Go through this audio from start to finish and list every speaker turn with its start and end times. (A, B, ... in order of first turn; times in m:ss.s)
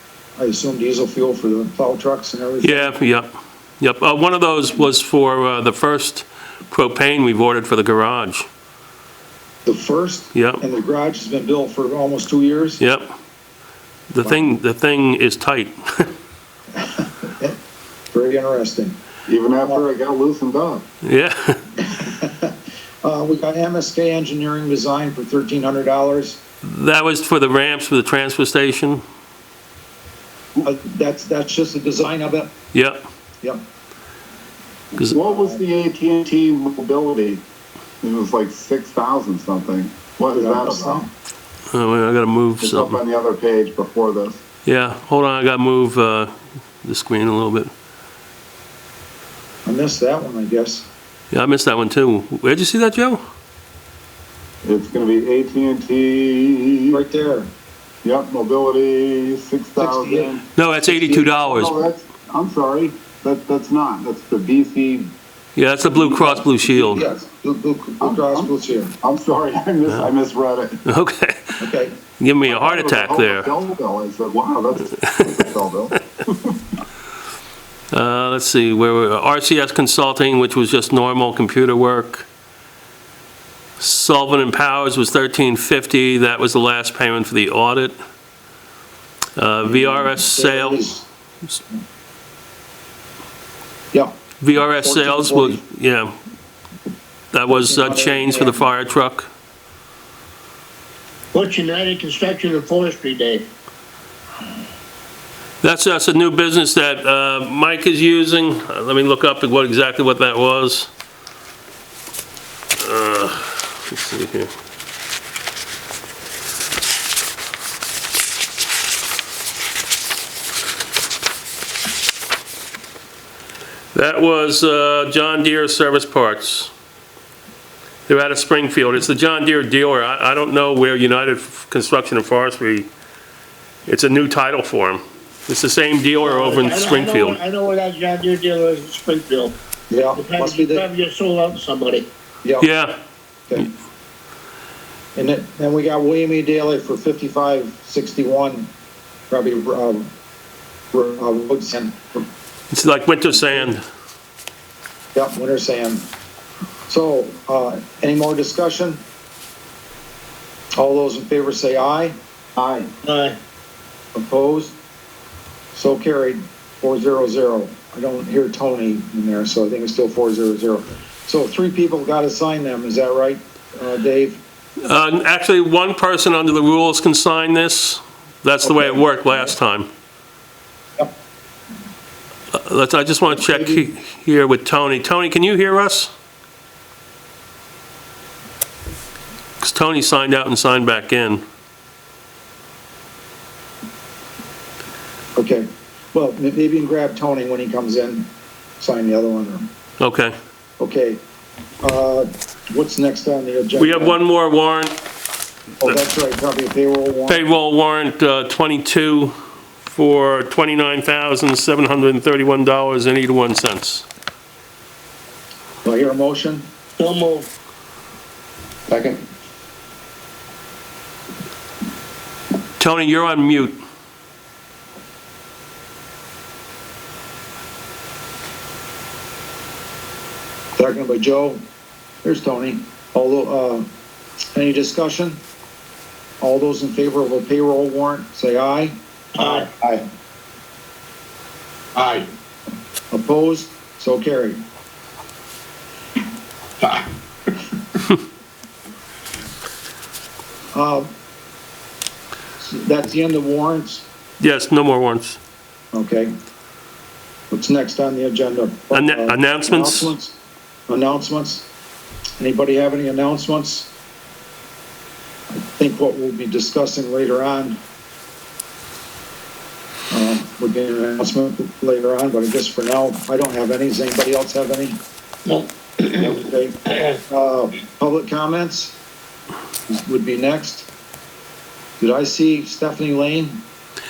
0:00.4-0:03.0 A
0:02.6-0:03.3 B
0:03.8-0:08.4 B
0:09.6-0:12.8 A
0:10.3-0:10.6 B
0:12.8-0:13.1 B
0:14.1-0:16.1 B
0:14.2-0:14.5 A
0:16.8-0:17.6 A
0:18.1-0:19.0 A
0:19.3-0:20.8 C
0:21.0-0:21.6 B
0:21.8-0:26.4 A
0:26.6-0:29.0 B
0:30.6-0:32.5 A
0:32.7-0:33.0 B
0:35.0-0:37.4 C
0:35.2-0:35.5 A
0:38.0-0:41.0 C
0:40.3-0:41.1 A
0:41.7-0:43.0 B
0:42.6-0:44.4 C
0:44.6-0:46.3 B
0:46.8-0:47.7 B
0:49.6-0:50.9 A
0:51.3-0:53.2 B
0:54.6-0:57.0 C
0:56.9-0:57.5 A
0:58.0-1:00.5 C
0:59.8-1:00.3 A
1:00.6-1:01.7 B
1:00.9-1:01.3 A
1:01.0-1:05.1 C
1:05.6-1:07.0 B
1:05.9-1:06.4 C
1:06.8-1:08.9 A
1:08.0-1:10.8 C
1:10.8-1:11.6 B
1:11.6-1:11.9 A
1:12.2-1:13.5 B
1:12.4-1:16.7 C
1:17.9-1:22.2 B
1:23.8-1:27.9 B
1:29.4-1:30.9 B
1:29.6-1:31.0 A
1:33.9-1:35.6 A
1:34.4-1:36.1 B
1:37.3-1:39.3 B
1:37.5-1:38.7 A
1:41.3-1:43.5 D
1:45.6-1:50.9 B
1:52.8-1:54.5 B
2:03.9-2:06.7 B
2:08.1-2:12.9 B
2:13.9-2:17.4 B
2:16.2-2:19.5 D
2:19.9-2:20.9 A
2:20.2-2:22.1 D
2:22.4-2:22.7 A
2:22.6-2:22.9 B
2:25.1-2:28.7 A
2:29.3-2:30.1 A
2:30.9-2:32.3 A
2:32.7-2:33.8 B
2:35.1-2:36.1 A
2:36.9-2:39.0 A
2:40.8-2:42.2 A
2:42.6-2:42.9 C
2:43.0-2:43.4 D
2:44.1-2:44.8 A
2:45.7-2:54.4 A
2:54.8-2:59.9 B
2:58.6-2:59.5 A
3:02.5-3:06.1 B
3:03.3-3:03.8 A
3:09.6-3:11.4 B
3:15.4-3:19.6 A
3:20.0-3:20.3 B
3:20.8-3:21.2 A
3:21.8-3:24.2 A
3:23.7-3:25.0 B
3:25.8-3:27.4 A
3:27.3-3:29.3 B
3:29.8-3:34.0 B
3:35.8-3:36.7 A
3:37.0-3:37.5 D
3:42.8-3:43.8 B
3:50.8-3:51.6 A
3:52.2-3:53.9 A
3:54.5-3:55.4 A
3:56.4-3:59.7 A
3:59.4-3:59.8 D
4:01.9-4:02.3 D
4:03.1-4:04.6 A
4:06.8-4:07.1 D
4:10.7-4:11.1 A
4:12.6-4:14.0 A
4:14.4-4:15.4 B
4:15.9-4:16.3 A
4:17.5-4:20.4 A
4:18.9-4:20.1 B
4:20.9-4:21.7 A
4:22.4-4:23.9 A
4:25.5-4:27.8 A
4:30.1-4:35.0 A
4:35.4-4:36.2 D
4:36.1-4:39.0 A
4:36.9-4:37.1 D
4:39.9-4:40.9 A
4:42.0-4:43.6 A